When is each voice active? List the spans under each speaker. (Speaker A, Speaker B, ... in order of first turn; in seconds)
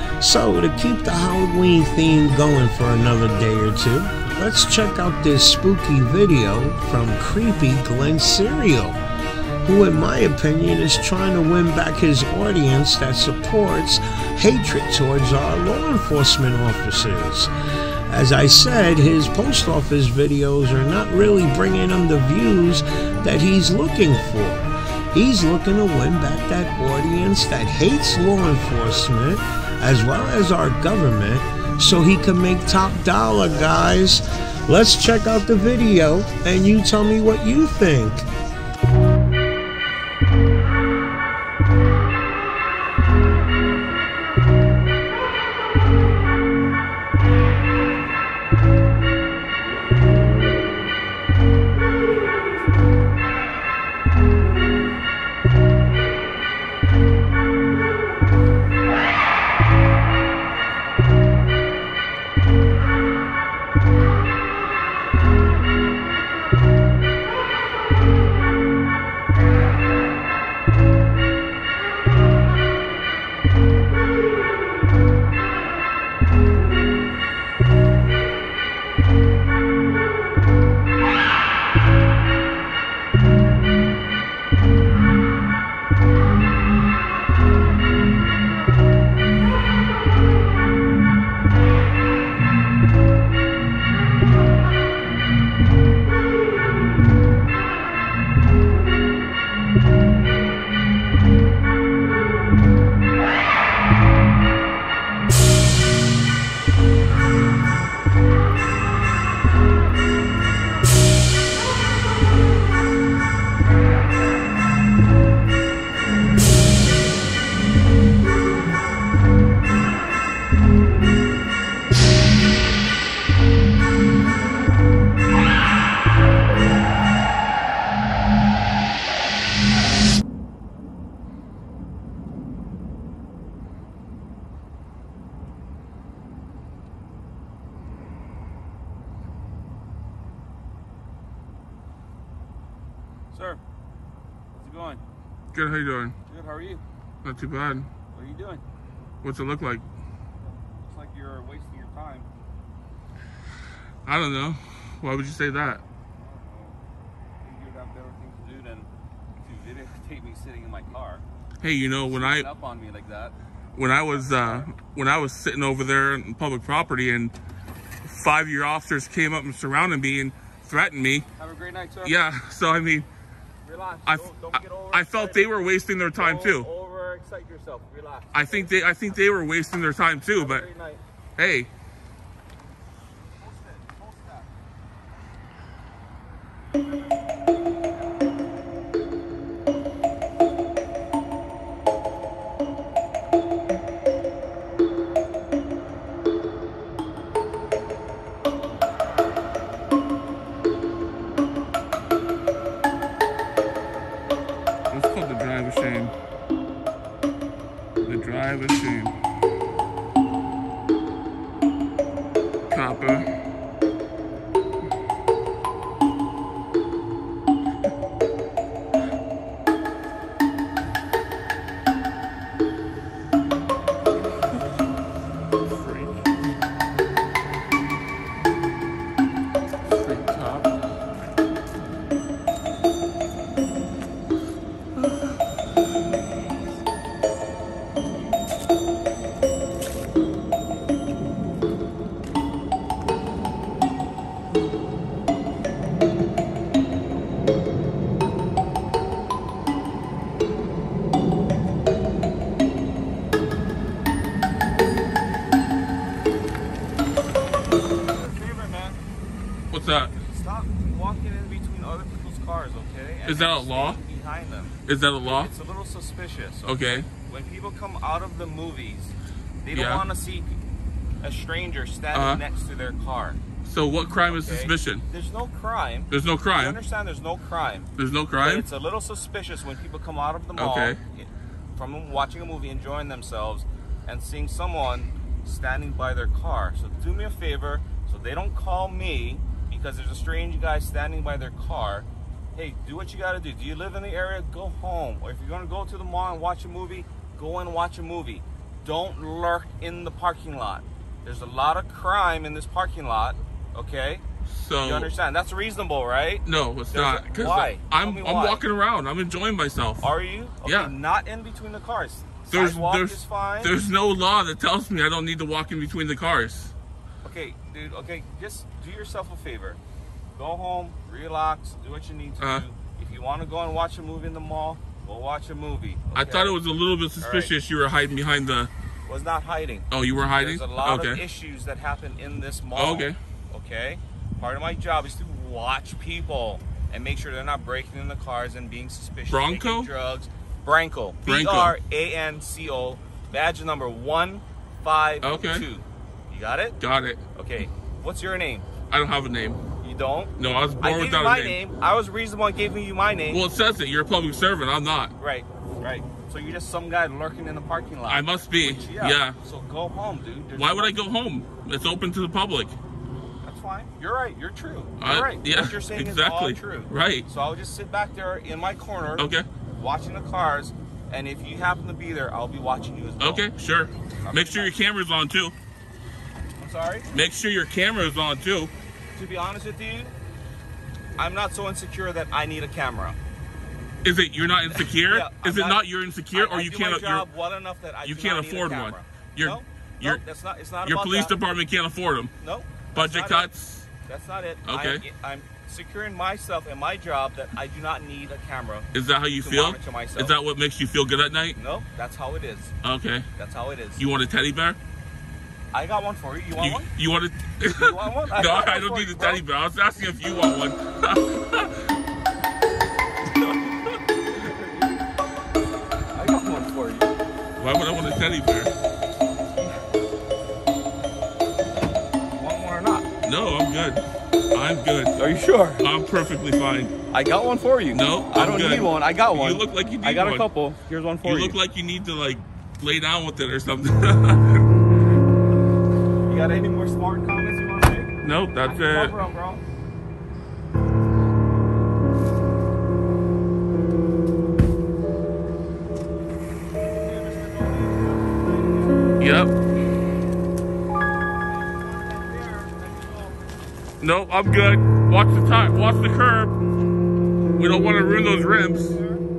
Speaker A: 0.2-9.0, 9.6-17.5, 18.1-38.3
Speaker B: 143.3-143.6, 144.5-145.0, 146.3-146.8, 148.1-148.6, 150.6-152.3, 156.2-156.8, 157.4-158.9, 159.4-161.2, 162.0-163.3, 164.1-164.7, 171.4-172.2, 173.6-179.2, 180.3-181.0, 183.2-184.5, 258.1-259.0, 260.1-270.5, 271.2-273.4, 274.3-277.9, 278.4-304.2, 304.8-308.6, 310.0-313.7, 317.2-319.8, 320.4-326.6, 327.2-327.5, 329.0-346.8, 347.3-348.7, 349.8-353.4, 355.2-360.9, 363.4-373.5, 374.2-374.7, 376.6-377.1, 379.1-380.1, 381.2-383.2, 384.7-391.3, 392.4-393.5, 394.1-400.3, 401.6-402.7, 403.4-404.0, 405.7-406.9, 407.6-409.4, 414.2-415.1, 416.1-417.1, 422.3-423.1, 425.2-425.9, 427.1-431.6, 436.3-439.6, 446.9-449.1, 451.5-453.5, 458.8-459.2
Speaker C: 145.5-146.2, 147.2-147.9, 149.2-149.8, 154.1-155.8, 161.6-162.5, 163.7-167.3, 168.0-171.3, 172.0-173.1, 174.1-176.7, 178.3-180.7, 181.4-181.7, 204.9-206.1, 208.0-209.1, 212.7-213.3, 225.7-226.4, 229.8-230.7, 259.7-260.1, 263.3-264.0, 264.9-265.5, 266.6-267.1, 269.7-270.0, 272.1-272.4, 273.6-275.0, 276.1-276.8, 278.0-278.6, 280.6-281.0, 304.5-305.1, 306.4-310.1, 310.6-310.9, 312.5-316.7, 326.1-328.7, 329.9-331.2, 332.8-333.2, 339.3-339.9, 341.2-341.8, 345.2-345.6, 346.8-347.2, 348.9-349.6, 350.4-351.6, 353.3-355.1, 358.1-359.4, 360.6-362.7, 365.0-367.2, 369.2-369.4, 373.2-375.5, 377.1-378.7, 384.0-387.3, 388.0-390.2, 390.8-392.3, 392.9-393.9, 394.6-395.0, 398.9-401.6, 402.8-403.3, 404.0-404.8, 406.6-411.9, 417.6-418.7, 423.2-425.2, 425.8-426.9, 427.9-430.5, 431.2-434.7, 438.2-439.1, 449.2-449.5, 454.0-456.5, 457.6-458.9